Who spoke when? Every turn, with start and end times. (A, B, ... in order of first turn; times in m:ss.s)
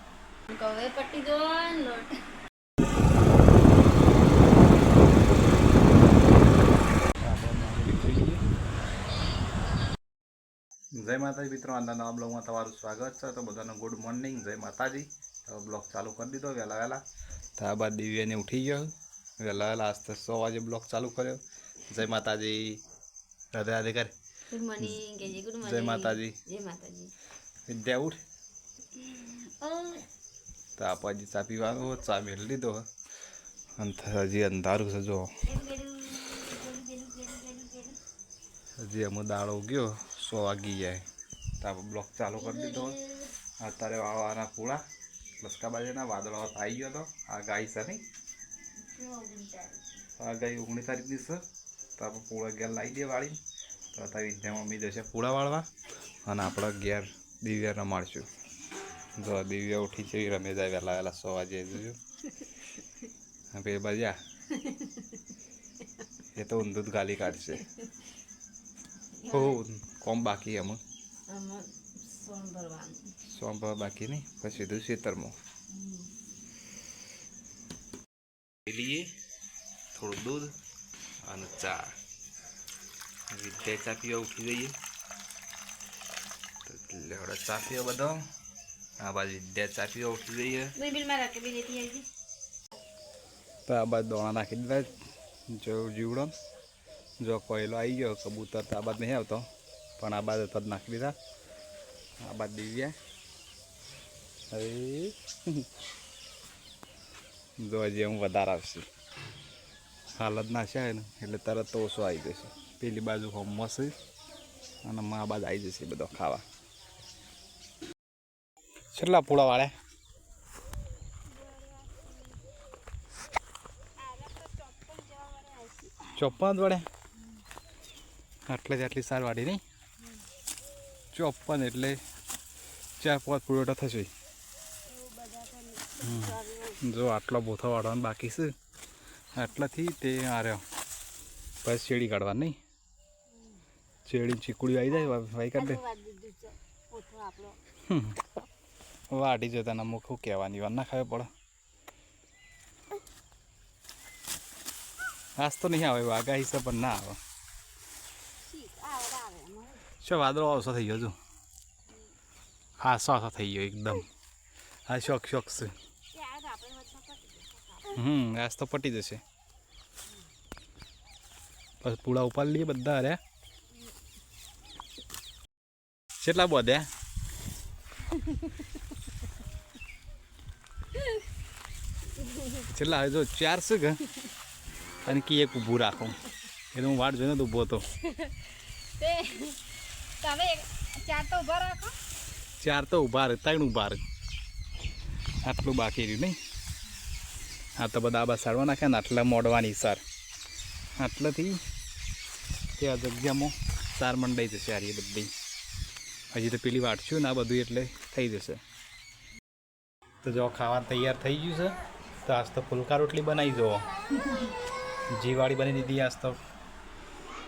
0:00.5-0:02.1 A
0:07.2-0:08.4 B
0:10.9-0:17.0 B
0:17.6-0:22.8 B
0:23.5-0:24.1 B
0:24.5-0:27.1 A
0:25.6-0:26.4 B
0:27.7-0:28.2 B
0:29.0-0:30.1 A
0:30.8-0:32.8 B
0:33.8-0:35.3 B
0:35.4-0:38.0 A
0:38.8-0:41.0 B
0:41.6-0:43.0 B
0:42.4-0:43.3 A
0:43.6-0:44.8 B
0:45.4-0:48.0 B
0:48.8-0:49.8 A
0:50.2-0:51.4 B
0:52.0-0:53.4 B
0:53.9-0:55.7 B
0:56.2-0:58.3 B
0:59.2-1:02.0 B
1:03.5-1:04.2 B
1:04.5-1:05.2 A
1:06.3-1:07.7 B
1:09.2-1:09.6 A
1:09.3-1:10.8 B
1:11.3-1:13.1 A
1:13.2-1:15.4 B
1:15.7-1:16.0 A
1:18.6-1:19.1 B
1:19.9-1:20.5 B
1:21.2-1:21.9 B
1:23.3-1:24.7 B
1:26.6-1:28.2 B
1:29.0-1:30.7 B
1:30.8-1:32.1 A
1:33.6-1:35.0 B
1:35.5-1:36.3 B
1:37.2-1:39.4 B
1:40.0-1:41.1 B
1:42.2-1:42.9 B
1:44.5-1:45.7 B
1:47.6-1:48.8 B
1:50.2-1:53.9 B
1:54.8-1:56.4 B
1:58.9-1:59.7 B
2:01.3-2:02.4 A
2:04.0-2:06.2 A
2:06.1-2:06.8 B
2:08.5-2:09.6 B
2:11.1-2:12.0 B
2:13.0-2:14.1 B
2:14.9-2:16.8 A
2:16.0-2:18.5 B
2:19.3-2:20.6 B
2:21.6-2:22.6 B
2:24.0-2:25.8 B
2:24.9-2:27.6 A
2:27.8-2:28.2 B
2:29.1-2:31.3 B
2:35.4-2:37.2 B
2:38.4-2:39.9 A
2:40.0-2:41.1 B
2:42.8-2:44.1 B
2:44.9-2:45.7 B
2:46.1-2:48.0 A
2:47.9-2:49.2 B
2:51.8-2:53.2 B
2:56.2-2:56.9 B
2:58.2-2:58.6 A
3:02.2-3:02.6 A
3:02.6-3:04.0 B
3:05.0-3:06.2 B
3:06.7-3:07.8 B
3:08.0-3:09.7 A
3:10.2-3:11.9 A
3:12.6-3:14.0 B
3:15.4-3:16.4 B
3:17.8-3:20.0 B
3:21.0-3:21.6 B
3:22.8-3:25.3 B
3:26.3-3:28.6 B
3:30.2-3:33.8 B
3:35.1-3:36.4 B